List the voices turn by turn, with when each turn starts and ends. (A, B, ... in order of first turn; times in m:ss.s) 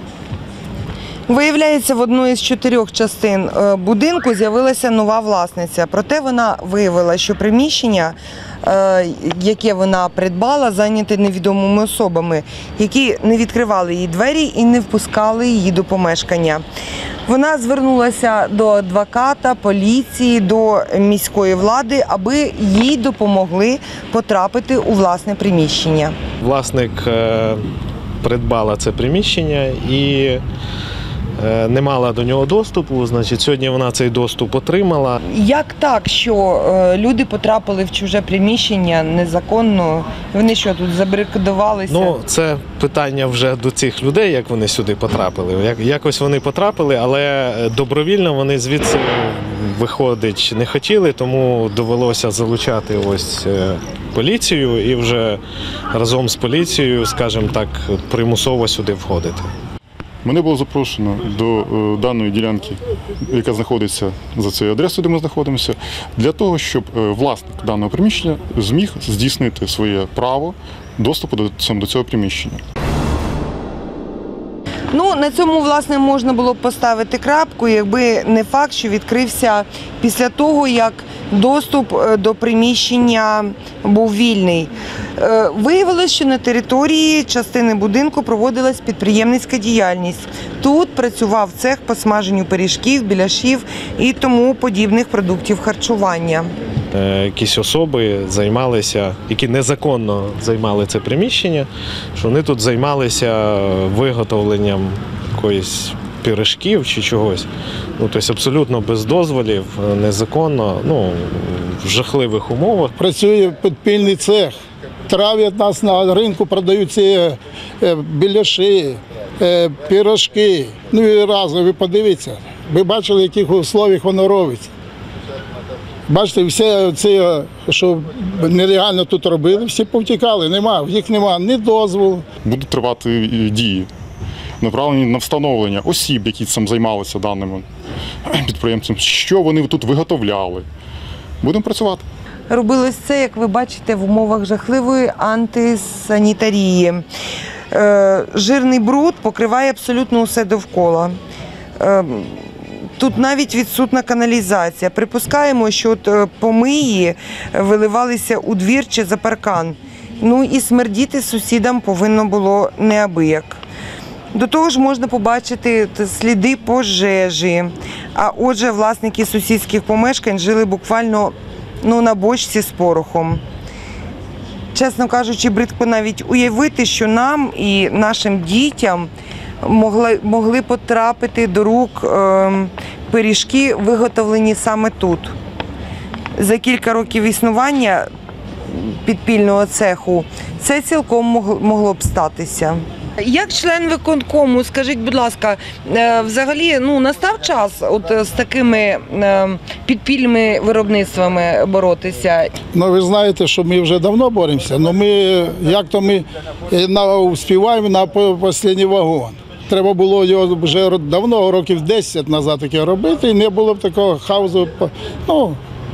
0:01.3-0:16.6 A
0:17.3-0:26.2 A
0:26.4-0:27.6 B
0:28.2-0:30.4 B
0:31.4-0:35.2 B
0:35.2-0:42.2 A
0:41.9-0:55.4 B
0:55.9-0:59.5 B
1:00.2-1:12.6 C
1:14.9-1:36.5 A
1:36.9-1:52.9 B
1:53.0-2:04.7 D
2:06.1-2:12.3 D
2:12.4-2:13.9 C
2:14.6-2:17.6 C
2:18.3-2:20.7 C
2:21.4-2:22.0 C
2:22.5-2:27.0 A
2:27.7-2:31.2 A
2:31.8-2:43.6 A
2:44.3-2:53.4 A
2:54.7-2:59.1 A
2:59.6-3:05.4 A
3:06.4-3:08.1 A
3:08.7-3:22.5 A
3:22.7-3:35.6 D